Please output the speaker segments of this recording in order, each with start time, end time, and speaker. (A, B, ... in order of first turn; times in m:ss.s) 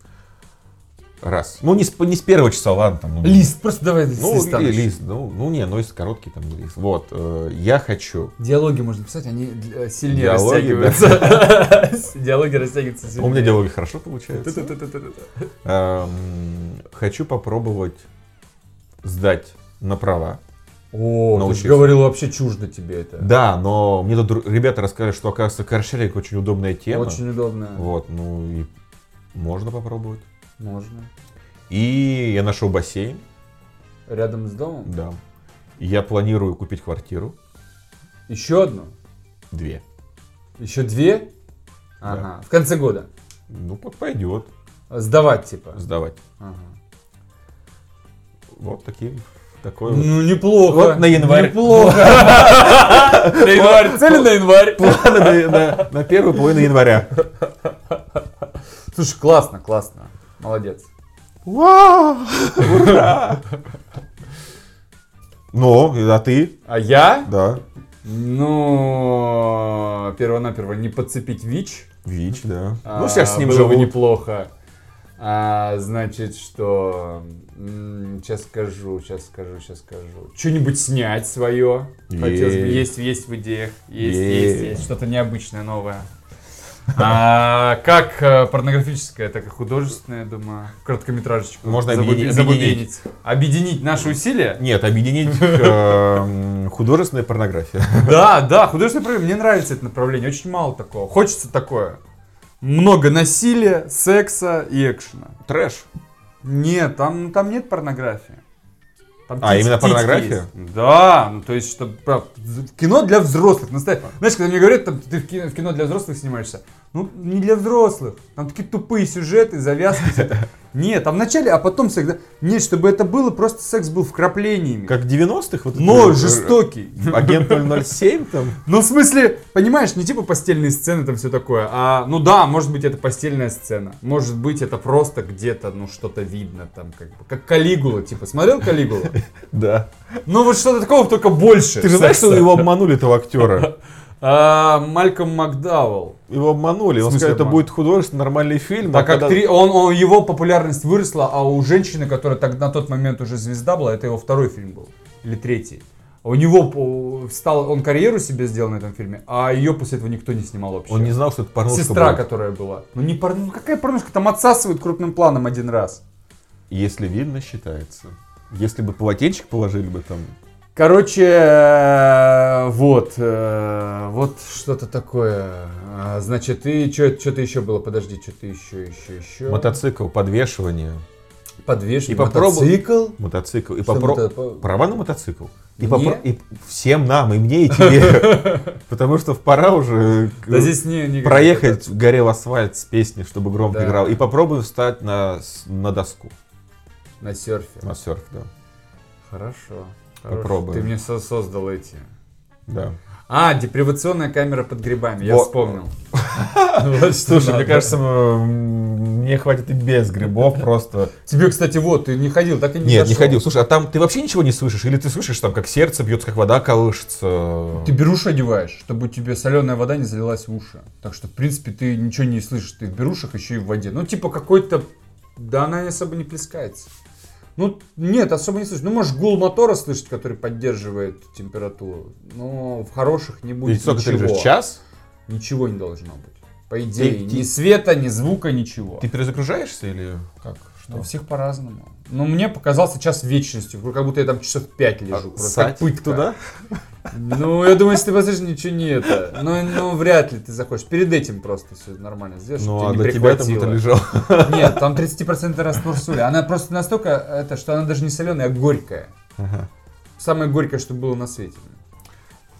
0:01.2-0:03.5 A
0:03.2-0:04.9 B
0:04.1-0:08.3 A
0:08.4-0:13.6 B
0:10.1-0:11.5 A
0:13.2-0:14.7 A
0:14.3-0:15.4 B
0:15.6-0:18.0 A
0:19.0-0:20.4 A
0:20.9-0:23.3 B
0:21.3-0:22.0 A
0:23.2-0:27.2 A
0:26.9-0:27.9 B
0:27.7-0:28.7 A
0:29.3-0:30.2 A
0:30.6-0:31.1 B
0:31.7-0:33.2 A
0:34.1-0:34.9 B
0:34.8-0:35.2 A
0:35.8-0:37.3 A
0:38.3-0:38.9 B
0:39.5-0:39.8 A
0:40.6-0:41.3 B
0:42.0-0:43.1 B
0:43.5-0:44.5 A
0:44.9-0:45.8 B
0:45.7-0:46.2 A
0:46.4-0:46.8 B
0:48.6-0:57.1 A
0:49.9-0:55.9 B
0:58.9-1:00.9 B
1:01.4-1:03.5 A
1:02.6-1:03.1 B
1:05.5-1:06.5 A
1:06.6-1:07.3 B
1:07.2-1:07.6 A
1:08.0-1:11.9 B
1:12.0-1:13.9 A
1:12.8-1:14.5 B
1:15.2-1:26.1 B
1:22.1-1:22.9 A
1:24.0-1:24.8 A
1:26.9-1:34.6 B
1:31.6-1:32.8 A
1:34.6-1:38.2 A
1:35.2-1:36.1 B
1:38.0-1:42.0 B
1:42.6-1:45.4 B
1:45.4-1:45.8 A
1:46.4-1:48.4 B
1:49.3-2:05.0 B
1:49.4-1:50.5 A
2:04.9-2:08.6 A
2:05.7-2:07.8 B
2:08.6-2:19.1 B
2:19.5-2:19.9 A
2:20.2-2:22.7 B
2:21.8-2:23.7 A
2:23.4-2:26.2 B
2:26.3-2:29.4 A
2:27.0-2:27.6 B
2:28.8-2:41.2 B
2:40.9-2:42.2 A
2:41.7-2:46.0 B
2:46.7-2:50.3 A
2:50.8-2:59.7 B
2:59.5-3:01.0 A
3:01.6-3:03.2 B
3:02.1-3:16.3 A
3:03.8-3:04.6 B
3:05.8-3:06.2 B
3:07.7-3:08.7 B
3:10.5-3:11.8 B
3:13.7-3:14.2 B
3:17.2-3:17.8 B
3:17.8-3:18.5 A
3:19.2-3:22.1 B
3:20.3-3:20.9 A
3:22.7-3:23.0 A
3:23.3-3:25.9 B
3:25.2-3:31.1 A
3:26.7-3:28.0 B
3:31.2-3:33.4 B
3:32.8-3:37.9 A
3:37.8-3:46.9 B
3:47.6-3:54.5 B
3:53.6-3:54.8 A
3:55.3-3:59.0 B
3:57.0-3:57.5 A
3:59.0-4:01.1 A
4:00.9-4:06.2 B
4:05.1-4:06.4 A
4:07.1-4:19.1 B
4:12.6-4:15.0 A
4:19.4-4:19.7 A
4:20.2-4:21.8 B